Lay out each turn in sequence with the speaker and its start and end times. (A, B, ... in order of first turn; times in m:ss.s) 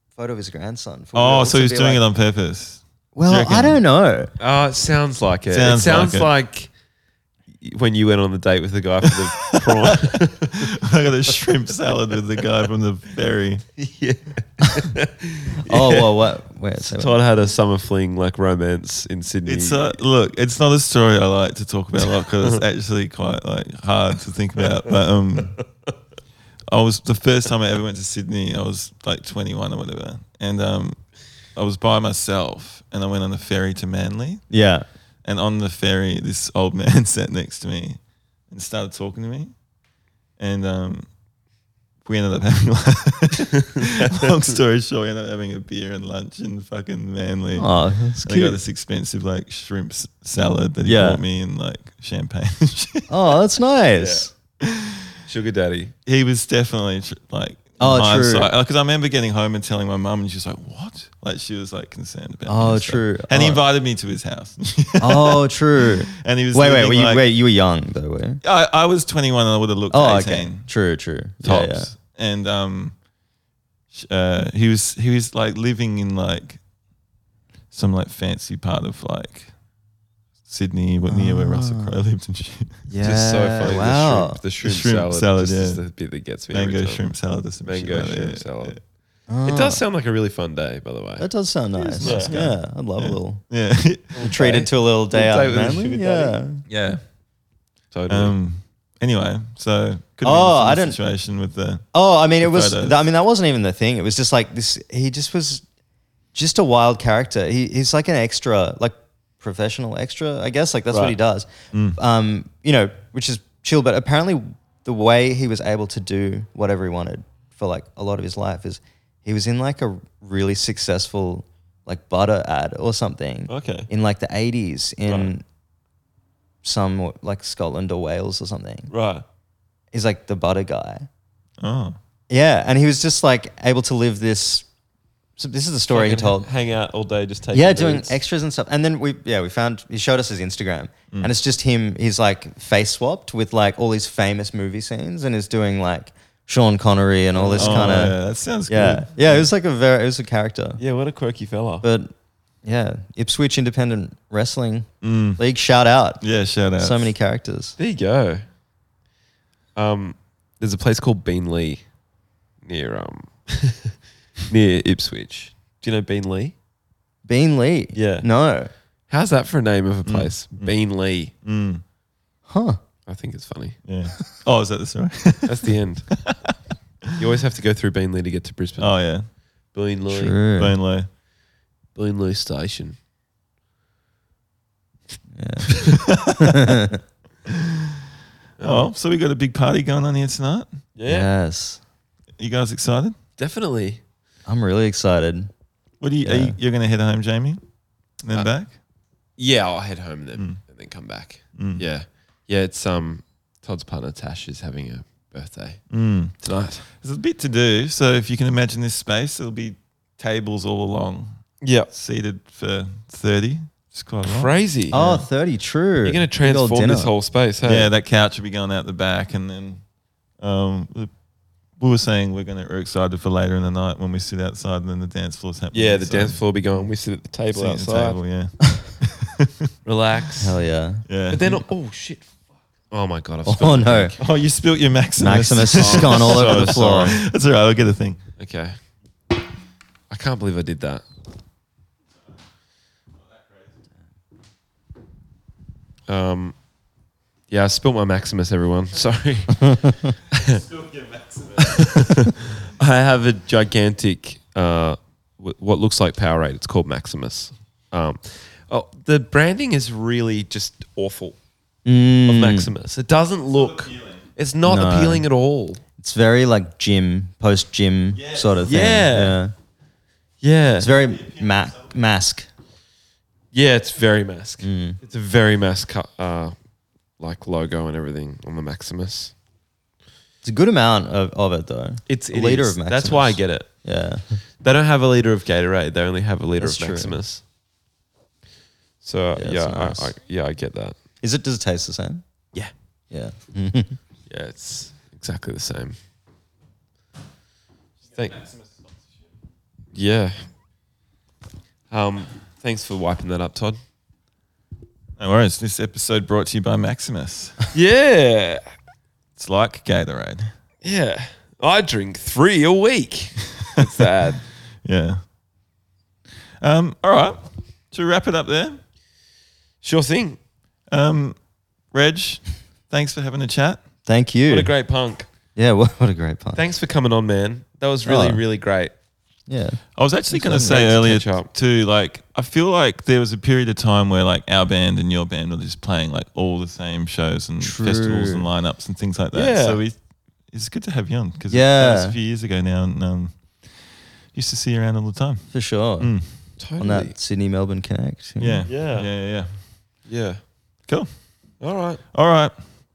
0:00.2-0:02.0 A
0:01.1-0:03.8 B
0:03.1-0:04.3 A
0:04.4-0:06.7 C
0:05.5-0:06.3 B
0:07.6-0:10.7 C
0:09.1-0:13.6 B
0:13.8-0:16.1 C
0:15.6-0:17.2 A
0:16.8-0:20.0 C
0:19.4-0:25.6 B
0:24.6-0:25.6 C
0:26.7-0:34.4 B
0:34.5-0:34.8 A
0:35.2-0:39.5 B
0:40.4-0:41.1 B
0:42.0-0:47.7 B
0:47.6-0:48.6 A
0:48.2-0:53.1 B
0:50.8-0:51.2 A
0:53.1-0:54.3 A
0:53.9-0:54.3 C
0:54.6-0:55.1 B
0:55.3-0:55.9 C
0:56.0-1:07.2 B
0:57.8-0:58.5 A
1:02.4-1:03.6 A
1:05.0-1:08.4 A
1:08.4-1:10.7 B
1:09.9-1:11.9 A
1:11.4-1:12.9 B
1:13.9-1:16.6 B
1:17.7-1:19.5 B
1:20.5-1:22.8 B
1:21.1-1:22.0 A
1:22.9-1:24.4 A
1:23.0-1:27.0 C
1:24.6-1:25.8 B
1:26.5-1:28.8 B
1:27.6-1:28.8 C
1:29.3-1:29.8 A
1:29.4-1:31.3 C
1:31.2-1:33.4 A
1:31.8-1:34.2 B
1:32.0-1:32.4 C
1:34.1-1:37.0 C
1:34.2-1:36.6 A
1:37.9-1:38.3 C
1:38.1-1:41.9 B
1:40.2-1:41.0 A
1:41.9-1:45.6 A
1:42.4-1:42.9 B
1:46.3-2:05.4 A
1:50.9-1:51.2 C
1:51.7-1:52.0 B
2:03.5-2:03.9 C
2:05.0-2:05.3 C
2:06.6-2:08.9 A
2:08.9-2:09.2 C
2:09.9-2:11.1 A
2:11.6-2:12.0 B
2:12.3-2:14.6 A
2:15.4-2:16.5 A
2:15.9-2:18.2 C
2:17.5-2:28.2 A
2:27.3-2:28.0 C
2:27.6-2:29.5 B
2:28.7-2:30.8 A
2:30.8-2:31.9 C
2:31.8-2:36.2 A
2:35.0-2:35.4 B
2:36.2-2:37.1 B
2:36.8-2:37.8 A
2:37.8-2:38.4 C
2:39.8-2:41.8 C
2:42.6-2:46.5 C
2:47.2-2:48.7 A
2:47.9-2:48.2 C
2:49.1-2:51.3 C
2:50.0-2:50.7 B
2:51.4-2:51.8 B
2:52.5-2:52.8 A
2:53.0-2:53.8 C
2:53.8-2:56.4 B
2:55.4-2:56.1 C
2:57.1-2:59.0 C
2:58.8-2:59.3 B
2:59.7-3:00.4 C
3:00.1-3:00.8 A
3:00.6-3:01.1 B
3:01.9-3:03.0 C
3:05.3-3:07.0 A
3:05.8-3:06.8 B
3:07.5-3:07.8 B
3:08.6-3:08.9 C
3:08.6-3:10.7 B
3:11.0-3:11.3 C
3:11.0-3:11.8 A
3:12.4-3:13.2 B
3:13.4-3:14.0 C
3:14.4-3:15.5 A
3:16.0-3:17.6 B
3:16.2-3:16.6 A
3:18.2-3:18.7 B
3:19.4-3:25.8 C
3:21.6-3:21.8 B
3:25.9-3:26.3 B
3:26.4-3:26.9 C
3:27.0-3:35.2 B
3:31.6-3:31.9 C
3:34.2-3:35.0 C
3:34.9-3:37.1 A
3:36.0-3:37.9 C
3:37.6-3:39.8 B
3:40.4-3:41.1 B
3:41.8-3:46.4 B
3:45.7-3:48.2 C
3:47.5-3:49.7 B
3:49.8-3:50.6 C
3:50.4-3:51.0 A
3:51.1-3:51.6 B
3:51.3-3:52.3 C
3:52.9-3:54.2 C
3:53.4-3:54.1 A
3:54.2-3:58.2 B
3:55.2-3:57.2 A
3:55.7-3:57.0 C
3:58.4-3:58.8 C
4:00.1-4:01.0 C
4:06.1-4:06.6 C
4:07.5-4:10.6 C
4:09.7-4:10.1 A
4:10.4-4:12.1 B
4:11.6-4:21.4 C
4:21.8-4:22.7 A
4:22.2-4:25.8 C
4:23.8-4:24.2 B
4:24.6-4:25.2 A
4:26.0-4:29.5 A
4:28.6-4:29.4 C
4:30.4-4:30.9 C
4:30.8-4:32.5 A
4:33.5-4:36.5 C
4:34.6-4:35.0 A
4:37.2-4:39.3 C
4:40.4-4:44.4 A
4:42.1-4:43.7 C
4:44.6-4:47.4 C
4:46.6-4:47.2 A
4:49.0-4:51.0 C
4:49.4-4:50.1 A
4:51.2-4:52.2 A
4:53.1-4:54.0 A
4:54.3-4:56.0 C
4:58.1-4:58.4 C
4:59.9-5:00.5 C
5:01.9-5:03.8 C
5:05.2-5:07.6 B
5:07.7-5:08.6 C
5:09.4-5:10.5 B
5:10.8-5:14.4 C
5:14.8-5:15.2 B
5:16.6-5:18.8 B
5:19.8-5:20.4 C
5:20.9-5:21.4 B
5:21.9-5:23.8 B
5:24.0-5:24.7 A
5:24.5-5:25.3 C
5:25.6-5:26.6 A
5:26.5-5:28.9 C
5:28.0-5:28.4 A
5:29.5-5:29.8 A
5:30.0-5:40.0 B
5:30.3-5:30.7 A
5:30.5-5:31.5 C
5:37.6-5:38.4 A
5:39.3-5:39.8 C
5:40.5-5:43.3 B
5:41.5-5:42.2 A
5:44.3-5:45.5 B
5:45.5-5:46.1 A
5:46.0-5:46.3 B
5:46.6-5:47.1 C
5:46.8-5:48.7 A
5:48.4-5:49.5 B
5:48.6-5:49.1 C
5:50.1-5:50.4 C
5:51.6-5:52.0 C
5:52.1-5:52.5 B